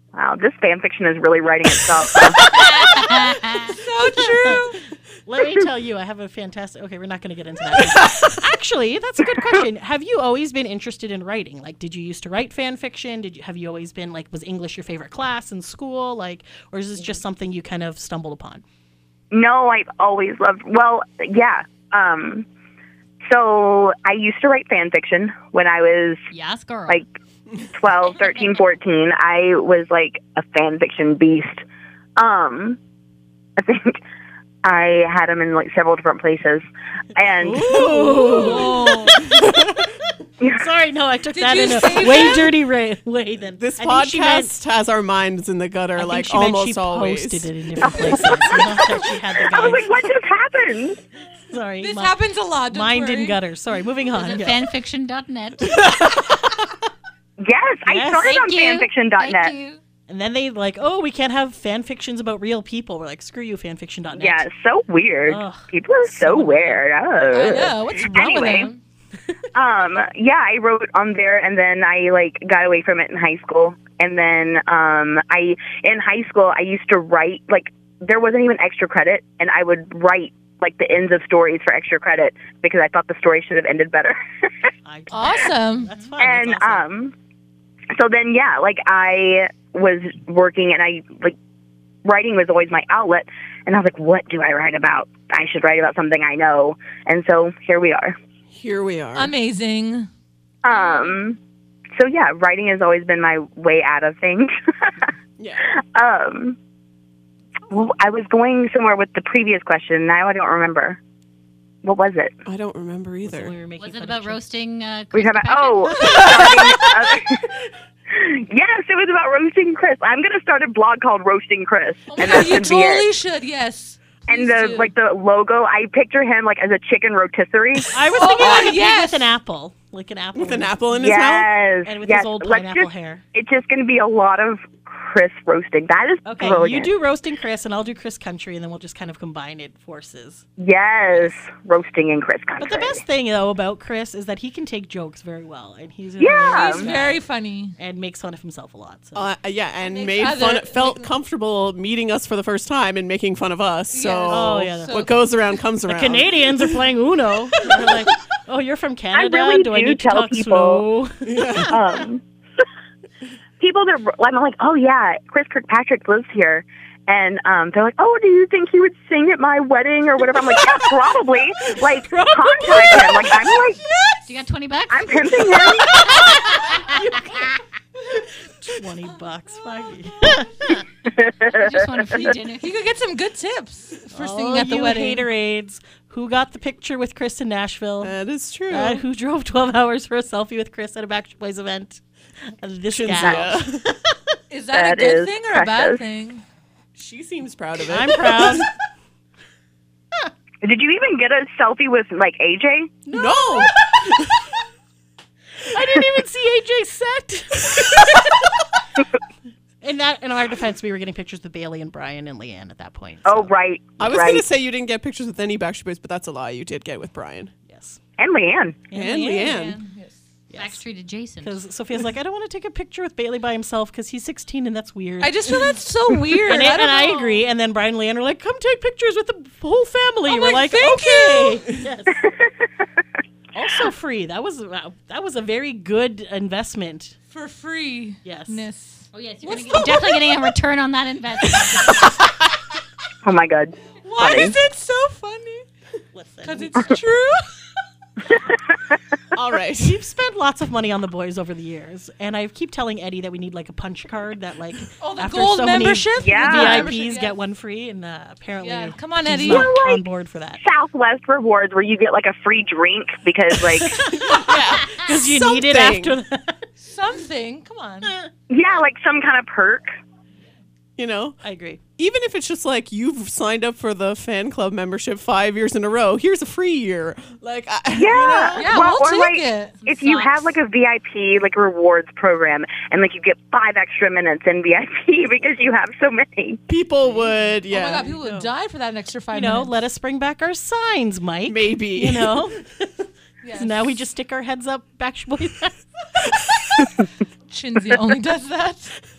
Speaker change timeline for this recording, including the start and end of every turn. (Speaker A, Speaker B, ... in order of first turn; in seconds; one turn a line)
Speaker A: 0.1-2.5
Speaker B: 2.5-3.7
Speaker C: 3.6-4.9
Speaker D: 4.2-18.6
Speaker A: 19.3-22.4
Speaker A: 23.3-26.3
Speaker B: 26.3-27.0
Speaker A: 27.7-31.6
Speaker B: 28.1-28.6
Speaker A: 32.2-32.8
Speaker A: 33.6-34.0
Speaker A: 34.6-36.6
Speaker A: 37.1-37.7
Speaker D: 37.4-39.6
Speaker E: 37.4-39.8
Speaker C: 38.7-38.9
Speaker D: 40.4-44.5
Speaker C: 41.3-42.5
Speaker E: 43.6-47.5
Speaker D: 45.9-49.9
Speaker A: 48.0-48.8
Speaker A: 49.4-51.0
Speaker D: 51.5-54.6
Speaker C: 51.8-53.4
Speaker B: 54.1-56.0
Speaker A: 57.4-59.5
Speaker D: 57.9-58.3
Speaker B: 58.2-59.8
Speaker D: 60.1-64.5
Speaker A: 64.1-68.7
Speaker D: 65.3-66.8
Speaker C: 67.3-68.8
Speaker A: 69.5-84.7
Speaker D: 84.8-86.8
Speaker C: 85.1-85.9
Speaker A: 86.2-87.1
Speaker A: 87.9-91.3
Speaker A: 92.0-98.2
Speaker E: 98.5-99.3
Speaker C: 99.2-100.1
Speaker A: 100.6-101.4
Speaker C: 100.7-101.2
Speaker A: 102.0-105.0
Speaker A: 105.8-106.6
Speaker A: 107.7-111.0
Speaker A: 111.8-112.3
Speaker E: 112.4-113.5
Speaker D: 113.2-114.4
Speaker B: 113.8-116.8
Speaker A: 115.1-117.4
Speaker D: 116.0-116.7
Speaker A: 118.1-123.1
Speaker C: 122.1-124.9
Speaker A: 124.3-128.0
Speaker D: 127.9-131.3
Speaker C: 128.1-129.3
Speaker E: 130.3-131.5
Speaker A: 131.0-136.9
Speaker D: 131.8-133.2
Speaker D: 136.2-140.4
Speaker A: 140.6-143.0
Speaker D: 141.1-141.3
Speaker D: 142.6-147.2
Speaker A: 146.2-146.9
Speaker C: 146.5-147.8
Speaker D: 147.8-149.2
Speaker E: 149.1-156.8
Speaker C: 149.8-151.1
Speaker C: 153.9-155.1
Speaker D: 154.3-155.1
Speaker D: 155.9-162.0
Speaker E: 157.6-158.0
Speaker A: 159.1-160.8
Speaker E: 161.2-161.7
Speaker A: 161.7-162.2
Speaker A: 163.6-173.8
Speaker D: 172.4-173.3
Speaker B: 174.2-177.0
Speaker A: 174.9-176.3
Speaker D: 176.7-177.4
Speaker D: 178.6-180.8
Speaker B: 181.4-182.7
Speaker A: 181.4-181.8
Speaker C: 182.6-185.3
Speaker D: 184.1-188.1
Speaker E: 188.0-189.0
Speaker D: 188.7-194.2
Speaker E: 192.9-193.9
Speaker A: 193.2-193.5
Speaker C: 194.5-196.4
Speaker A: 194.7-196.0
Speaker E: 196.9-198.7
Speaker D: 197.9-198.7
Speaker A: 200.6-203.0
Speaker D: 203.1-204.3
Speaker E: 203.1-204.3
Speaker D: 205.7-208.4
Speaker D: 209.8-213.5
Speaker A: 213.2-214.4
Speaker E: 214.0-217.5
Speaker D: 217.7-218.0
Speaker A: 218.2-218.8
Speaker D: 218.9-219.7
Speaker E: 218.9-219.8
Speaker C: 219.4-220.2
Speaker D: 220.5-220.8
Speaker B: 220.5-221.6
Speaker D: 221.4-225.7
Speaker C: 225.2-227.4
Speaker D: 226.3-232.3
Speaker C: 230.3-231.6
Speaker D: 233.5-237.2
Speaker C: 237.3-240.2
Speaker D: 238.2-238.7
Speaker B: 239.1-242.2
Speaker A: 243.2-244.5
Speaker C: 244.0-245.6
Speaker D: 246.1-247.0
Speaker C: 246.4-247.4
Speaker E: 249.3-250.0
Speaker D: 249.8-260.6
Speaker C: 255.0-257.4
Speaker A: 256.2-256.9
Speaker C: 258.6-259.8
Speaker A: 259.4-260.1
Speaker A: 260.6-264.1
Speaker D: 263.6-266.7
Speaker E: 264.1-266.2
Speaker C: 266.8-268.1
Speaker A: 268.5-269.9
Speaker E: 271.0-271.4
Speaker D: 271.4-271.8
Speaker E: 272.0-278.8
Speaker A: 277.9-286.6
Speaker C: 278.5-280.5
Speaker E: 286.7-288.2
Speaker C: 287.7-289.8
Speaker D: 287.9-288.5
Speaker D: 289.3-295.8
Speaker E: 291.5-292.4
Speaker C: 293.4-293.8
Speaker C: 297.5-298.9